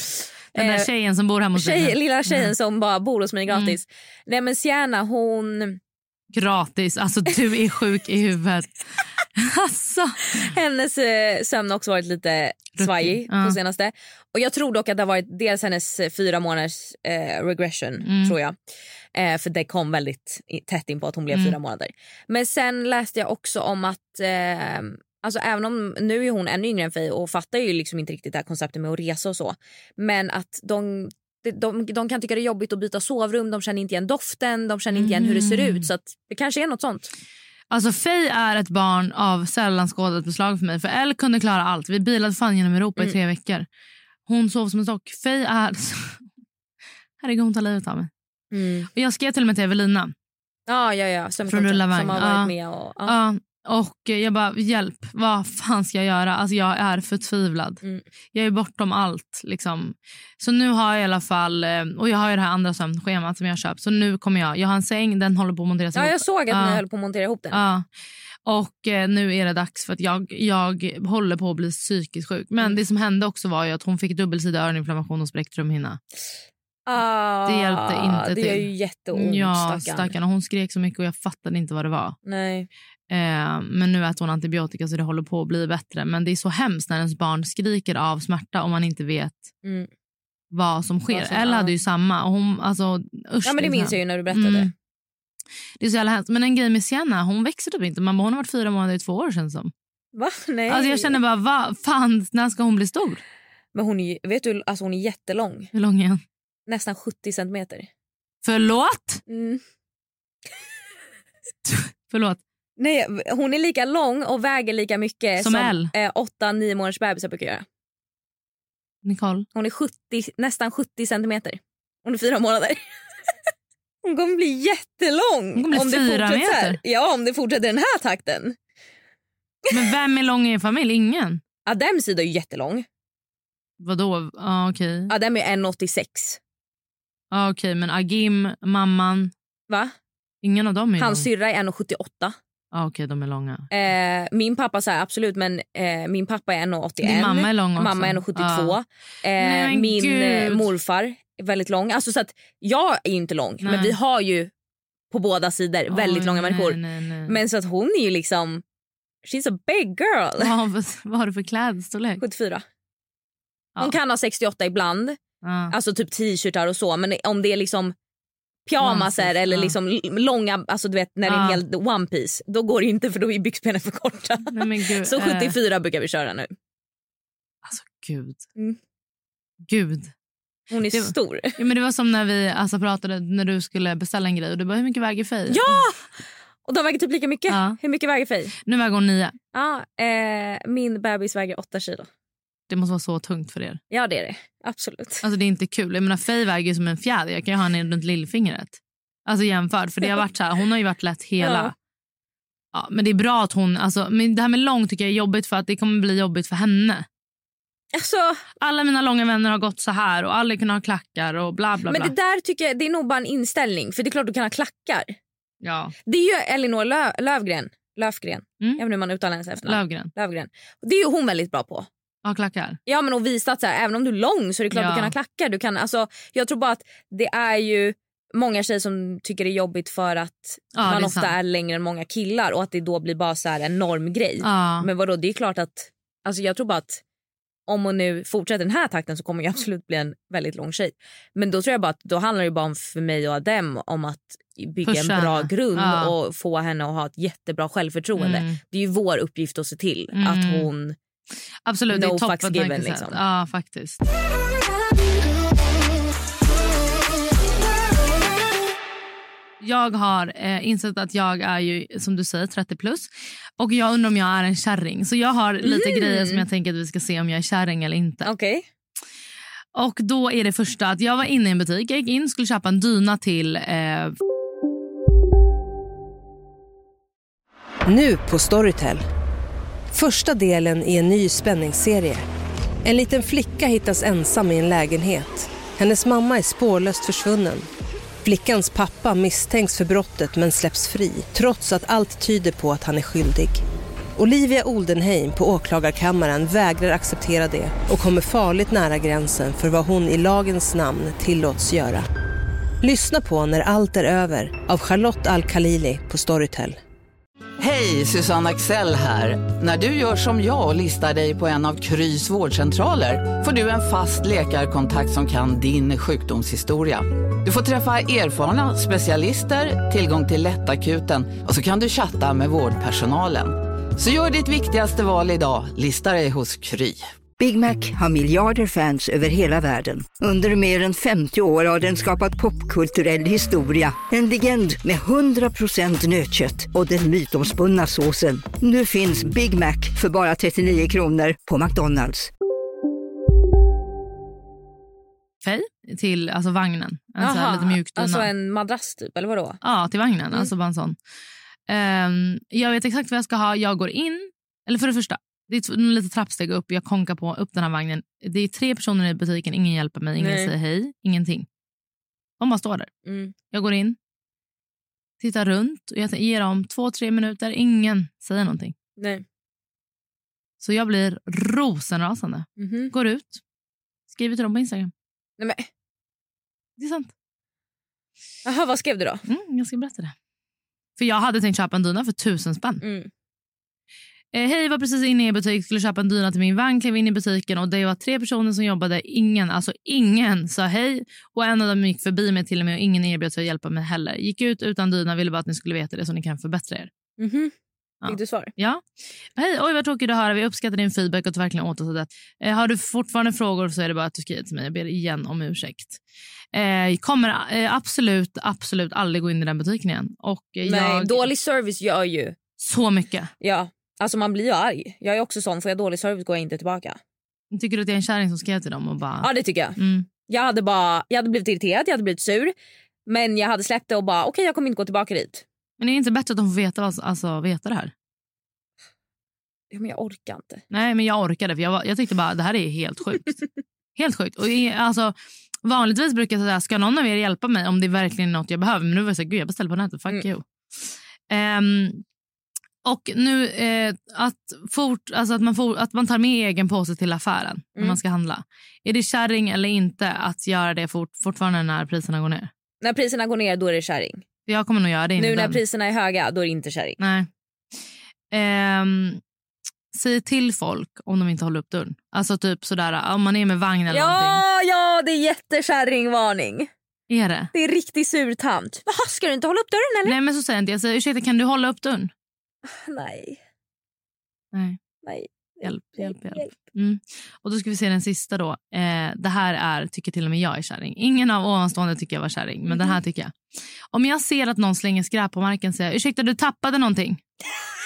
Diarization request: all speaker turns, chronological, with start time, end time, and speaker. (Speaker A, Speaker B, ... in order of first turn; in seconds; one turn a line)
Speaker A: 0.5-2.5
Speaker B: 0.6-0.9
Speaker B: 1.6-5.8
Speaker A: 3.5-3.8
Speaker A: 6.3-8.7
Speaker A: 9.4-10.5
Speaker B: 10.3-18.6
Speaker A: 12.8-13.6
Speaker A: 18.1-18.4
Speaker B: 19.1-37.1
Speaker A: 35.0-35.9
Speaker A: 37.7-43.7
Speaker A: 44.3-46.2
Speaker A: 47.2-48.1
Speaker B: 48.5-48.9
Speaker A: 48.9-50.1
Speaker B: 50.7-53.2
Speaker A: 51.5-52.5
Speaker A: 53.1-57.8
Speaker A: 58.3-66.8
Speaker B: 66.0-67.6
Speaker A: 67.5-67.8
Speaker A: 68.5-76.0
Speaker B: 76.9-80.1
Speaker A: 77.5-82.2
Speaker B: 82.3-82.7
Speaker A: 83.1-89.5
Speaker A: 90.5-94.7
Speaker B: 91.1-91.7
Speaker B: 93.5-94.7
Speaker A: 95.8-99.7
Speaker B: 100.2-101.2
Speaker A: 100.7-103.2
Speaker B: 103.7-105.7
Speaker A: 105.7-106.2
Speaker B: 106.7-107.9
Speaker A: 108.4-109.2
Speaker B: 109.3-109.6
Speaker A: 111.7-112.4
Speaker B: 112.8-117.7
Speaker A: 115.4-115.9
Speaker A: 119.0-119.5
Speaker B: 119.5-122.8
Speaker B: 124.0-128.6
Speaker A: 125.6-126.8
Speaker A: 129.7-131.4
Speaker B: 131.7-132.8
Speaker A: 133.8-135.1
Speaker B: 135.1-136.4
Speaker A: 137.3-139.3
Speaker B: 139.7-139.9
Speaker A: 140.4-141.3
Speaker B: 141.0-142.4
Speaker A: 142.7-143.7
Speaker B: 143.7-154.5
Speaker A: 147.0-148.8
Speaker A: 149.4-150.7
Speaker A: 153.6-154.0
Speaker B: 155.1-158.6
Speaker A: 155.9-157.4
Speaker B: 159.2-160.5
Speaker A: 160.4-162.2
Speaker B: 162.2-162.6
Speaker B: 163.8-165.2
Speaker A: 165.4-165.7
Speaker B: 165.7-167.9
Speaker B: 168.7-176.5
Speaker A: 168.8-169.8
Speaker A: 171.3-171.6
Speaker A: 174.5-175.6
Speaker A: 177.7-178.4
Speaker A: 179.7-180.1
Speaker B: 180.7-181.6
Speaker A: 180.9-185.8
Speaker B: 185.5-186.0
Speaker B: 186.7-188.5
Speaker A: 187.5-187.8
Speaker A: 188.6-189.3
Speaker B: 189.5-192.1
Speaker A: 192.7-193.8
Speaker B: 193.9-195.2
Speaker A: 195.2-201.7
Speaker B: 201.4-201.7
Speaker A: 202.7-207.1
Speaker B: 207.9-208.4
Speaker A: 208.6-212.1
Speaker B: 211.9-215.2
Speaker A: 215.6-215.9
Speaker B: 216.1-221.9
Speaker A: 219.7-220.1
Speaker A: 222.2-222.8
Speaker B: 222.9-237.0
Speaker A: 224.7-225.1
Speaker A: 230.8-231.3
Speaker A: 234.4-234.9
Speaker B: 237.7-251.0
Speaker A: 244.8-246.1
Speaker A: 248.2-248.6
Speaker A: 250.2-250.7
Speaker A: 251.7-254.1
Speaker B: 251.9-253.2
Speaker A: 259.6-268.3
Speaker B: 265.6-266.4
Speaker B: 268.2-268.6
Speaker A: 269.8-274.1
Speaker C: 277.9-279.0
Speaker C: 279.9-282.2
Speaker C: 282.9-287.7
Speaker C: 288.2-293.6
Speaker C: 294.2-302.1
Speaker C: 302.8-306.8
Speaker D: 307.6-327.0
Speaker E: 327.4-342.3
Speaker A: 345.4-348.3
Speaker B: 347.2-349.6
Speaker A: 349.6-351.0
Speaker A: 351.7-361.5
Speaker B: 360.2-360.5
Speaker A: 362.4-362.9
Speaker B: 363.1-363.3
Speaker A: 363.5-364.0
Speaker A: 365.2-368.7
Speaker B: 369.0-369.2
Speaker A: 370.6-373.4
Speaker B: 372.6-372.9
Speaker A: 374.1-374.9
Speaker B: 375.4-375.7
Speaker A: 376.8-377.1
Speaker B: 378.4-379.2
Speaker A: 379.3-380.1
Speaker A: 381.0-382.8
Speaker B: 382.8-383.1
Speaker A: 384.3-396.9
Speaker B: 397.2-397.5
Speaker A: 398.0-398.8
Speaker B: 398.1-398.5
Speaker A: 399.4-406.0
Speaker A: 406.5-411.3
Speaker B: 410.7-412.4
Speaker A: 412.6-413.3
Speaker B: 413.4-417.0
Speaker A: 417.5-420.1
Speaker B: 419.2-422.5
Speaker B: 423.1-425.4
Speaker A: 425.8-427.9
Speaker B: 429.7-430.6
Speaker A: 430.7-433.3
Speaker A: 434.0-440.4
Speaker A: 441.3-442.0
Speaker A: 442.8-452.5
Speaker B: 452.8-454.2
Speaker A: 454.5-455.6
Speaker B: 455.2-457.0
Speaker A: 457.0-457.3
Speaker A: 458.3-459.2
Speaker A: 459.9-464.4
Speaker B: 463.9-466.7
Speaker A: 467.1-467.5
Speaker B: 467.5-470.1
Speaker A: 470.1-472.1
Speaker B: 472.7-473.4
Speaker A: 474.5-474.8
Speaker B: 475.0-476.5
Speaker A: 475.6-483.3
Speaker B: 482.7-483.0
Speaker A: 483.9-487.2